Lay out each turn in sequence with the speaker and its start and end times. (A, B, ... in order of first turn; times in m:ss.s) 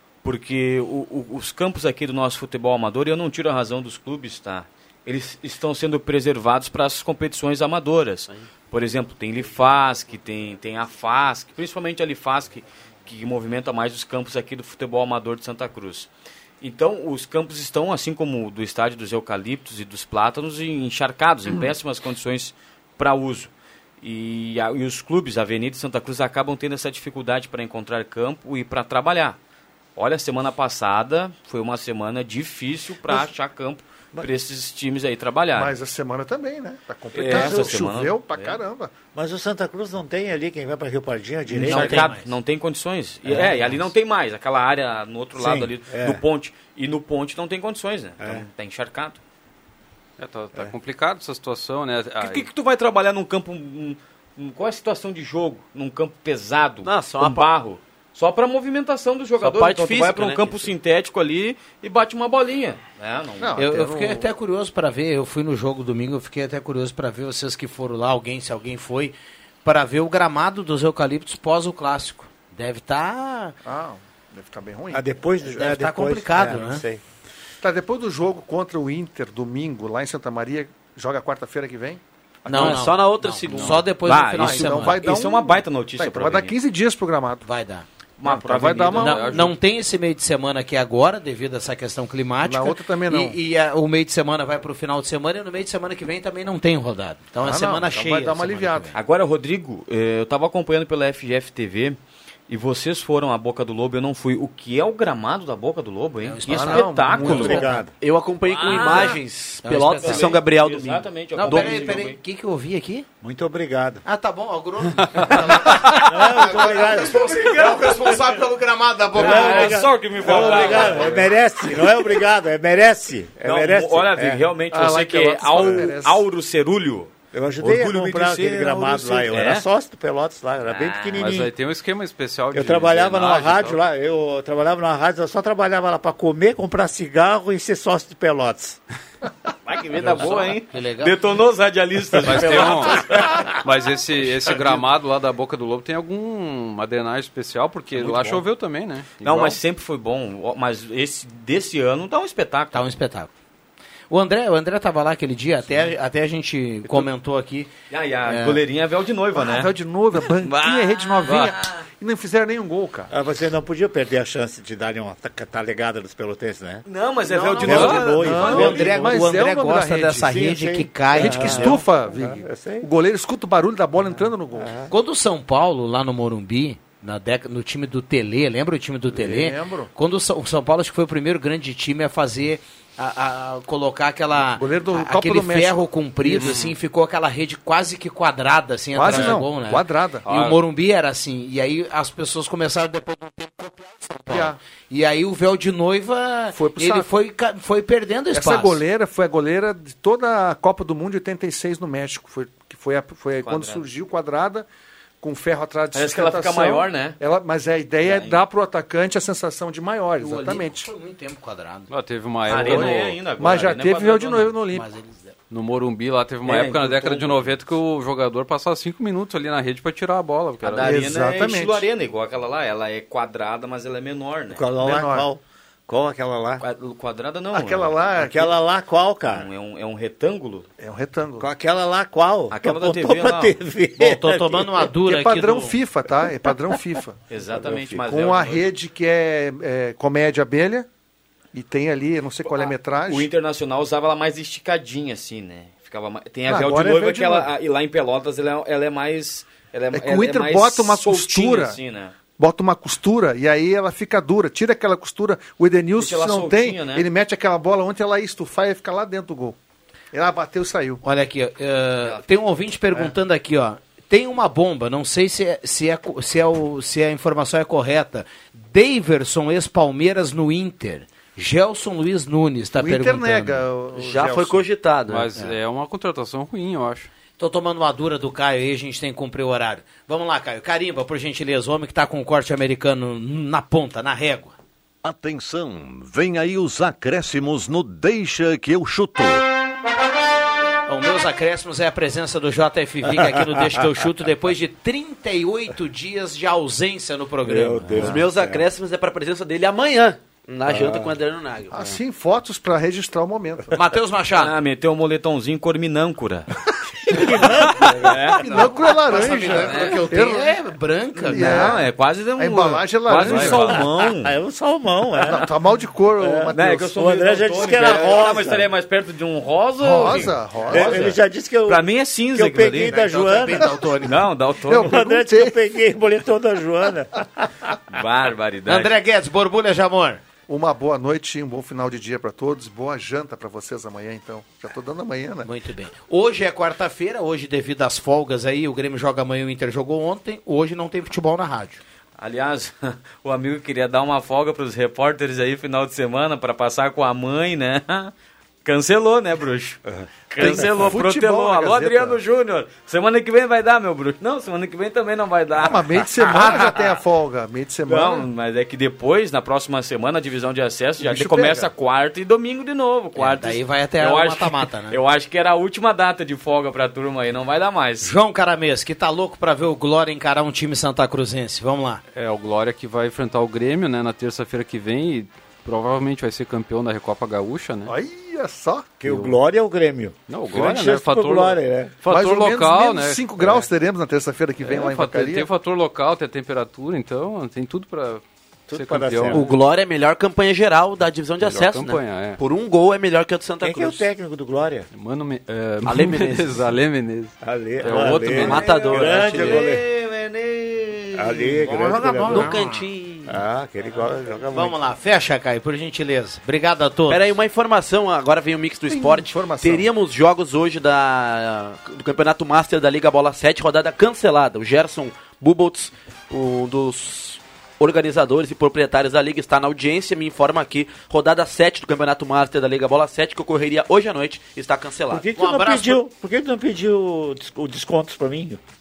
0:00.2-0:29.4 A
0:30.0-0:35.8 A
0:35.6-0:38.9 B
0:37.1-0:38.6 A
0:39.1-0:42.2 C
0:41.5-0:49.2 A
0:41.7-0:42.3 D
0:43.2-0:43.9 C
0:45.4-0:46.2 C
0:48.2-0:48.5 C
0:50.2-0:52.5 E
0:52.2-1:03.6 A
0:56.8-0:57.5 F
0:59.4-1:00.7 F
1:03.4-1:04.3 B
1:03.6-1:13.6 D
1:13.6-1:15.1 B
1:14.9-1:17.0 C
1:15.4-1:16.8 D
1:17.6-1:23.0 B
1:22.5-1:25.1 D
1:22.5-1:23.9 F
1:23.5-1:23.8 E
1:24.0-1:26.6 A
1:24.3-1:27.4 B
1:27.4-1:27.9 D
1:28.2-1:29.4 A
1:28.2-1:29.4 B
1:28.9-1:29.6 E
1:29.0-1:39.0 D
1:32.4-1:33.4 B
1:37.4-1:38.9 B
1:38.9-1:42.0 A
1:42.5-1:47.8 A
1:46.2-1:47.8 D
1:46.5-1:47.7 B
1:47.1-1:47.9 C
1:48.0-1:52.1 F
1:48.5-1:49.2 A
1:48.6-1:50.4 D
1:50.0-1:52.2 A
1:51.3-1:53.1 D
1:53.2-1:54.0 C
1:54.0-2:01.2 D
1:55.4-1:58.2 A
1:55.8-1:58.2 C
1:59.1-2:04.4 C
1:59.2-2:01.3 A
2:03.4-2:09.6 A
2:04.7-2:06.2 B
2:07.3-2:11.5 C
2:10.6-2:11.2 A
2:11.1-2:13.8 E
2:12.5-2:18.8 C
2:19.7-2:23.2 A
2:20.0-2:20.2 E
2:20.2-2:20.5 F
2:20.6-2:21.3 D
2:22.2-2:23.6 C
2:22.2-2:29.6 E
2:28.0-2:28.4 C
2:29.2-2:32.8 A
2:32.7-2:33.3 D
2:34.1-2:37.7 D
2:37.9-2:39.7 A
2:38.2-2:38.6 D
2:39.3-2:43.1 B
2:40.4-2:41.6 A
2:43.1-2:46.9 C
2:46.9-2:49.0 A
2:47.3-2:51.8 D
2:47.5-2:48.9 C
2:47.7-2:50.3 B
2:47.8-2:48.0 E
2:50.2-2:52.9 C
2:51.1-2:54.8 B
2:54.1-2:54.9 C
2:54.9-3:18.8 D
2:59.1-2:59.9 B
3:04.6-3:06.6 B
3:06.4-3:06.8 E
3:09.0-3:10.3 B
3:10.2-3:10.6 E
3:14.3-3:14.6 B
3:16.5-3:17.1 B
3:18.3-3:24.7 B
3:23.4-3:23.8 A
3:25.2-3:30.9 B
3:25.9-3:27.2 A
3:28.0-3:28.4 A
3:30.2-3:31.9 D
3:31.9-3:33.2 E
3:32.5-3:34.6 A
3:32.5-3:34.9 B
3:34.7-3:35.3 D
3:35.5-3:40.9 E
3:36.4-3:37.6 A
3:40.6-3:44.7 A
3:40.8-3:41.9 B
3:44.5-3:46.6 C
3:44.8-3:45.3 B
3:46.6-3:48.0 A
3:47.5-3:48.6 B
3:48.2-3:49.5 C
3:49.2-3:50.7 A
3:50.8-3:51.5 B
3:51.4-3:54.9 C
3:52.5-3:53.6 A
3:54.0-3:55.8 D
3:55.0-4:00.9 B
3:57.3-3:58.7 A
4:01.5-4:03.3 B
4:02.4-4:12.2 A
4:06.5-4:07.5 B
4:09.9-4:19.6 B
4:16.0-4:17.1 A
4:20.1-4:21.0 B
4:21.0-4:33.7 D
4:32.8-4:34.6 B
4:33.9-4:35.3 F
4:35.1-4:37.1 E
4:37.4-4:44.5 D
4:45.0-4:49.4 G
4:50.9-4:58.1 D
4:57.4-4:58.7 C
4:58.0-5:01.8 F
5:00.7-5:01.2 C
5:01.7-5:03.8 B
5:03.7-5:04.6 D
5:04.3-5:06.5 A
5:07.1-5:08.4 C
5:07.1-5:10.6 B
5:07.1-5:10.0 A
5:08.9-5:11.7 D
5:11.2-5:14.4 A
5:11.3-5:13.8 B
5:13.4-5:15.5 C
5:15.2-5:17.0 B
5:16.2-5:18.7 C
5:16.5-5:23.4 A
5:17.8-5:18.1 B
5:19.8-5:21.2 B
5:20.7-5:24.0 C
5:22.8-5:24.3 D
5:24.0-5:25.0 A
5:24.7-5:25.5 B
5:24.7-5:27.7 C
5:27.9-5:28.9 A
5:28.7-5:30.2 D
5:30.5-5:35.5 B
5:35.4-5:41.8 D
5:42.2-5:48.1 A
5:48.6-5:57.0 A
5:50.4-5:52.2 B
5:55.6-5:58.3 B
5:57.9-6:08.1 A
6:01.0-6:01.7 B
6:03.2-6:05.0 D
6:08.0-6:12.0 D
6:12.1-6:17.9 E
6:17.8-6:18.9 B
6:19.0-6:22.0 C
6:19.0-6:19.4 E
6:20.3-6:23.7 E
6:22.1-6:25.5 B
6:24.6-6:29.6 E
6:28.7-6:29.5 C
6:29.3-6:34.0 F
6:31.4-6:32.4 E
6:33.6-6:34.9 C
6:34.9-6:38.8 E
6:35.8-6:36.6 F
6:37.4-6:39.8 C
6:38.4-6:39.7 F
6:38.8-6:41.6 A
6:41.2-6:42.6 C
6:41.3-6:42.8 D
6:42.3-6:43.3 F
6:43.3-6:44.8 C
6:44.5-6:47.2 D
6:47.1-7:05.3 F
6:48.9-6:49.9 B
7:05.1-7:08.6 C
7:05.3-7:06.0 D